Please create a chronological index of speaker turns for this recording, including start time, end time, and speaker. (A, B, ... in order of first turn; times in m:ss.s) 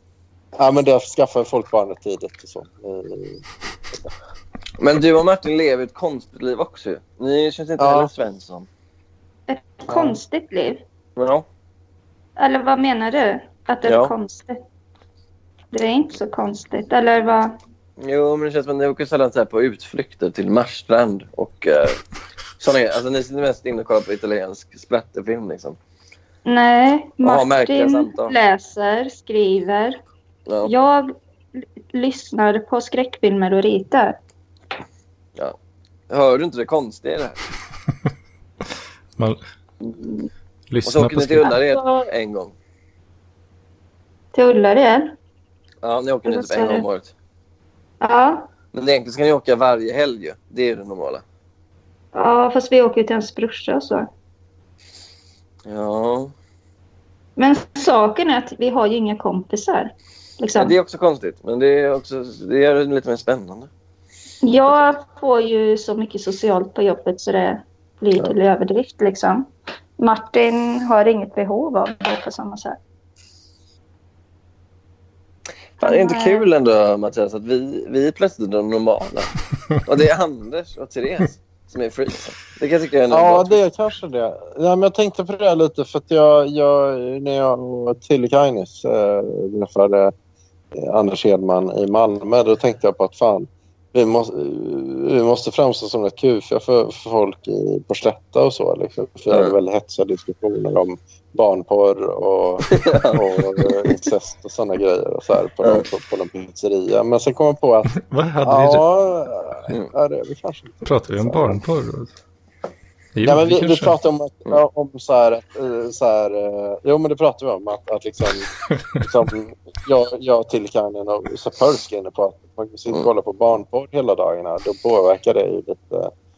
0:00.6-0:03.9 A
0:04.8-0:08.7 B
0:07.8-0:08.1 A
0:09.5-0:10.8 C
0:09.9-0:10.2 A
0:11.2-0:11.4 B
0:12.4-0:14.6 C
0:13.8-0:14.1 B
0:15.7-0:17.6 C
0:18.0-0:22.0 B
0:22.6-0:25.8 B
0:26.4-0:30.0 C
0:27.2-0:28.3 B
0:30.5-0:30.7 B
0:30.6-0:31.1 C
0:31.9-0:34.2 C
0:36.1-0:37.4 B
0:40.7-0:41.6 D
0:40.8-0:42.5 B
0:41.6-0:42.1 C
0:44.3-0:45.1 C
0:45.8-0:47.1 B
0:46.2-0:46.8 C
0:48.0-0:48.5 C
0:48.7-0:51.2 B
0:52.1-0:54.1 C
0:55.7-0:56.3 B
0:57.4-1:00.8 C
1:00.6-1:03.7 B
1:04.4-1:09.5 C
1:10.0-1:12.8 C
1:15.8-1:19.3 B
1:15.8-1:16.4 C
1:19.8-1:23.6 B
1:23.1-1:30.1 A
1:30.7-1:47.9 A
1:39.3-1:39.6 B
1:42.7-1:43.2 B
1:47.9-1:48.8 D
1:48.4-1:51.6 A
1:50.8-1:52.1 D
1:53.1-1:54.0 D
1:53.2-1:58.5 A
1:59.0-2:06.1 A